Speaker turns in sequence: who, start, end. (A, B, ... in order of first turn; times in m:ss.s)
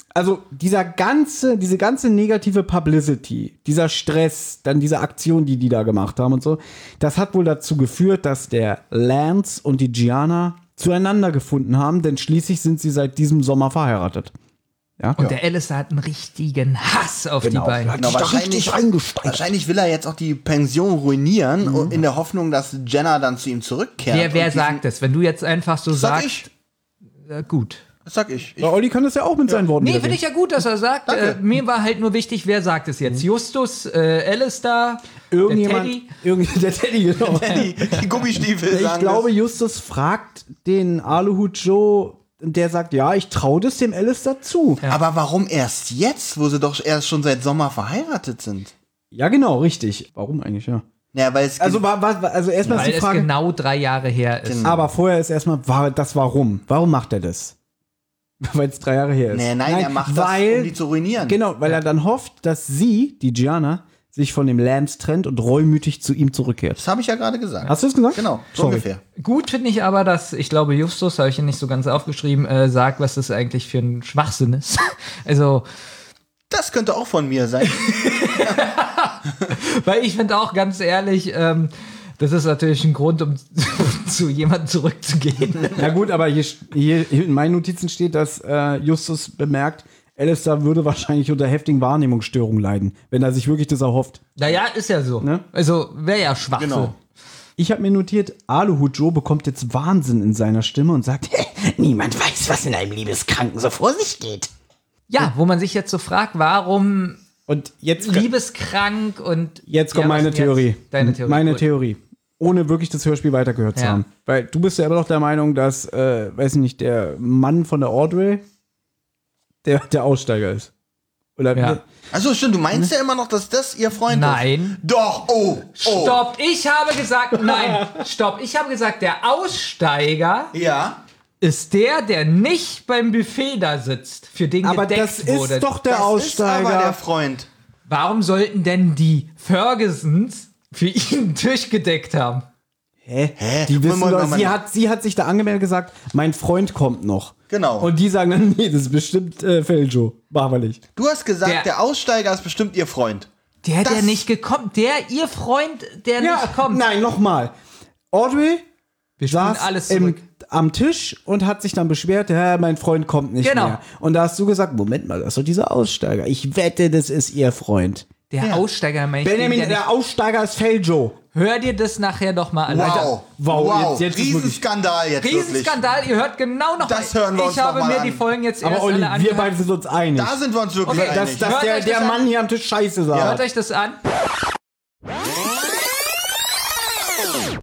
0:00.1-0:14.3 A
0:15.2-0:18.1 B
0:17.4-0:19.5 A
0:18.0-0:24.8 C
0:21.6-0:22.0 A
0:24.1-0:26.5 B
0:25.9-0:26.5 C
0:27.2-0:27.8 B
0:28.1-0:28.7 C
0:28.6-0:30.2 A
0:29.8-0:36.1 B
0:31.1-0:31.4 C
0:35.3-0:37.8 A
0:37.2-0:39.3 C
0:38.7-0:44.8 A
0:44.9-0:48.7 C
0:49.1-0:50.8 A
0:51.1-0:51.8 C
0:51.6-0:53.3 A
0:52.7-0:54.8 B
0:54.4-0:54.9 C
0:54.6-0:57.6 A
0:58.4-1:06.8 A
0:59.3-1:01.4 C
1:06.8-1:09.0 C
1:07.6-1:08.8 A
1:09.2-1:15.6 B
1:16.5-1:18.6 C
1:17.7-1:25.9 B
1:25.8-1:34.2 A
1:34.4-1:36.9 B
1:35.2-1:35.4 A
1:36.6-1:36.9 C
1:37.6-1:44.5 A
1:45.1-1:47.2 B
1:47.5-1:48.3 A
1:48.0-1:51.6 B
1:49.7-1:58.4 A
1:53.8-1:54.0 B
1:59.6-2:00.7 A
2:01.4-2:01.8 A
2:01.5-2:01.8 B
2:02.1-2:06.2 C
2:04.1-2:04.8 B
2:05.8-2:10.5 B
2:07.4-2:07.9 A
2:10.5-2:11.0 C
2:11.4-2:15.7 B
2:14.6-2:17.0 A
2:15.9-2:17.5 C
2:17.9-2:22.5 B
2:23.0-2:30.8 A
2:23.4-2:24.6 C
2:27.5-2:27.9 C
2:31.0-2:33.3 C
2:33.6-2:36.8 B
2:33.8-2:34.2 C
2:36.2-2:37.5 A
2:38.1-2:38.6 A
2:39.2-2:40.2 B
2:39.2-2:48.1 A
2:43.4-2:43.8 B
2:48.3-2:49.9 B
2:49.2-2:51.2 A
2:51.3-2:53.2 B
2:52.7-2:55.8 C
2:52.7-2:54.6 A
2:55.2-2:59.6 B
2:56.8-2:58.2 C
2:58.6-3:03.4 A
3:00.1-3:01.8 C
3:00.9-3:02.2 B
3:03.1-3:03.4 C
3:03.1-3:04.0 B